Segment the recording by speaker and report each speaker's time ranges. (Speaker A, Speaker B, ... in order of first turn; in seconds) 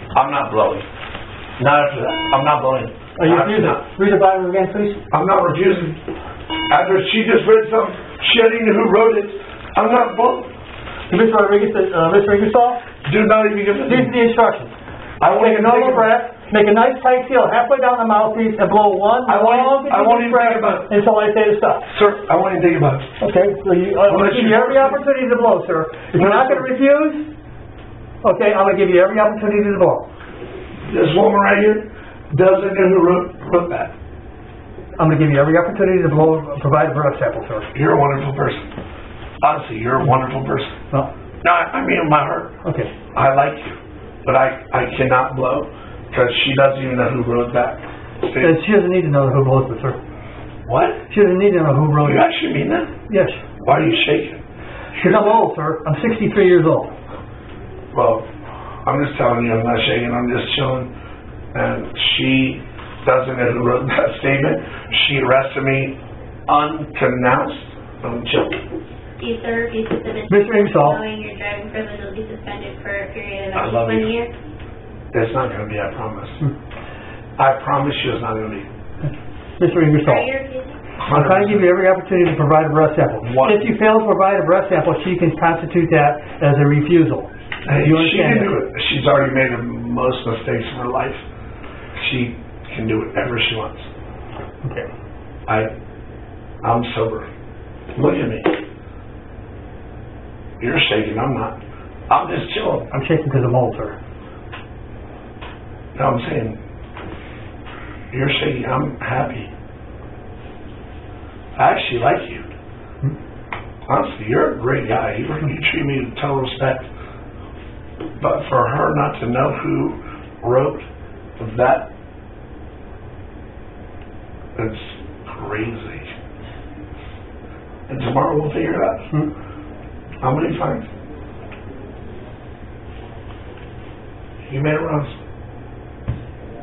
Speaker A: 0.1-0.9, 1.6-3.9, 5.1-6.0, 6.7-10.5, 13.1-14.2, 15.2-16.2, 19.3-20.9, 21.9-23.1, 24.1-25.0, 26.1-26.7, 30.9-33.9, 37.7-38.7, 39.4-40.8, 41.4-42.6, 43.1-48.6, 50.7-51.0, 52.0-52.9, 53.6-55.4, 57.9-58.3, 58.9-60.9, 61.5-68.6, 73.5-74.1, 75.1-76.4, 77.4-78.7, 81.0-81.7, 83.2-83.7, 87.7-91.2, 92.0-93.9, 95.5-95.7, 96.6-97.3, 98.0-98.5, 100.6-102.9, 106.0-106.6, 108.1-109.5, 111.6-112.5, 113.9-116.9, 118.2-120.9, 121.4-121.9, 124.6-126.1, 127.9-129.2, 130.2-130.9, 134.4-135.2
Speaker B: 3.2-5.0, 11.1-12.8, 13.8-14.7, 15.3-21.9, 23.2-27.3, 28.2-30.1, 35.0-37.7, 42.6-42.9, 48.4-50.0, 51.1-52.3, 53.1-53.4, 55.0-56.9, 70.3-71.0, 79.0-80.3, 81.1-88.7, 94.6-94.9, 102.9-104.0
Speaker C: 69.2-74.3, 80.0-80.8